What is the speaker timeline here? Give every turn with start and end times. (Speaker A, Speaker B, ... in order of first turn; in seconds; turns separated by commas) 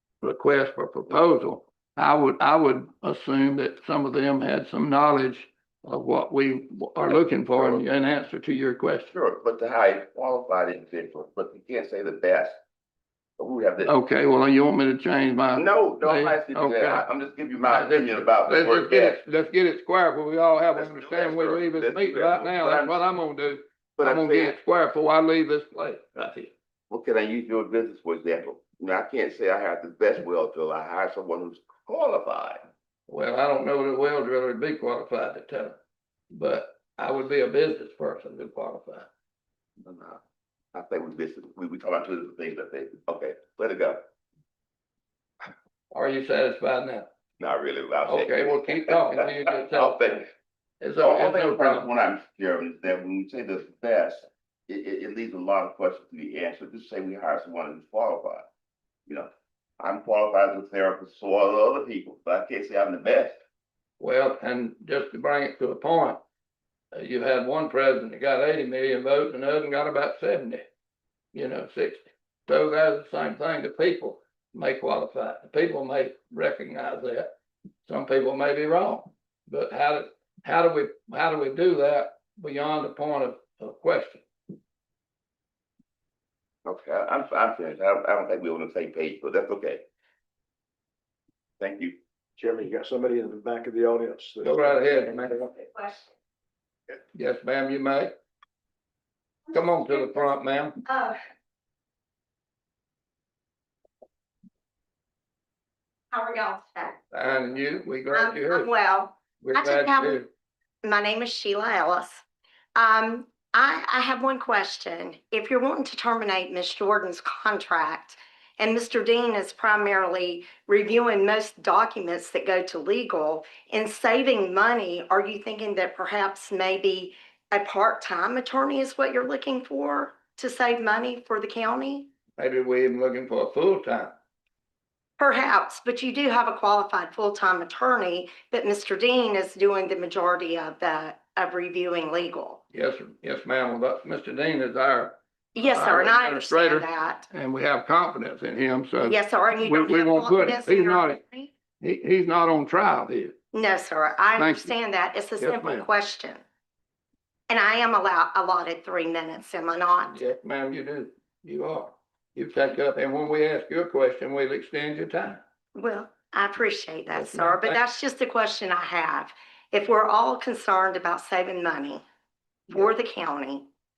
Speaker A: 0.2-9.1, Speaker B: 7.1-7.8, Speaker B: 9.1-12.6, Speaker B: 13.4-13.9, Speaker A: 13.8-17.1, Speaker B: 15.6-19.2, Speaker A: 17.6-26.5, Speaker B: 20.7-23.0, Speaker B: 24.0-24.6, Speaker B: 26.9-32.6, Speaker A: 33.1-35.8, Speaker A: 36.3-39.1, Speaker B: 39.9-40.2, Speaker B: 40.7-44.1, Speaker A: 45.9-47.1, Speaker B: 47.4-50.3, Speaker A: 48.1-50.2, Speaker A: 50.8-51.9, Speaker B: 51.0-58.5, Speaker B: 59.1-63.4, Speaker A: 64.0-66.2, Speaker A: 66.9-70.6, Speaker A: 71.3-77.3, Speaker A: 77.9-84.2, Speaker B: 86.7-89.8, Speaker B: 91.6-92.0, Speaker C: 92.4-94.8, Speaker A: 94.4-95.4, Speaker D: 95.4-96.1, Speaker A: 97.1-98.1, Speaker D: 99.5-100.2, Speaker A: 99.5-100.8, Speaker D: 100.8-101.2, Speaker D: 106.1-107.0, Speaker A: 107.1-108.7, Speaker D: 108.1-110.2, Speaker A: 109.4-110.3, Speaker D: 110.8-112.2, Speaker D: 112.8-132.1, Speaker A: 132.4-134.1, Speaker D: 135.2-142.6, Speaker A: 142.7-151.2, Speaker D: 145.6-147.3, Speaker D: 149.1-151.5, Speaker A: 151.8-153.3, Speaker D: 153.5-156.4, Speaker A: 154.4-154.8, Speaker A: 155.4-155.9, Speaker D: 157.5-160.2, Speaker A: 160.1-165.4, Speaker D: 165.8-172.0, Speaker A: 167.1-167.8, Speaker D: 172.7-173.7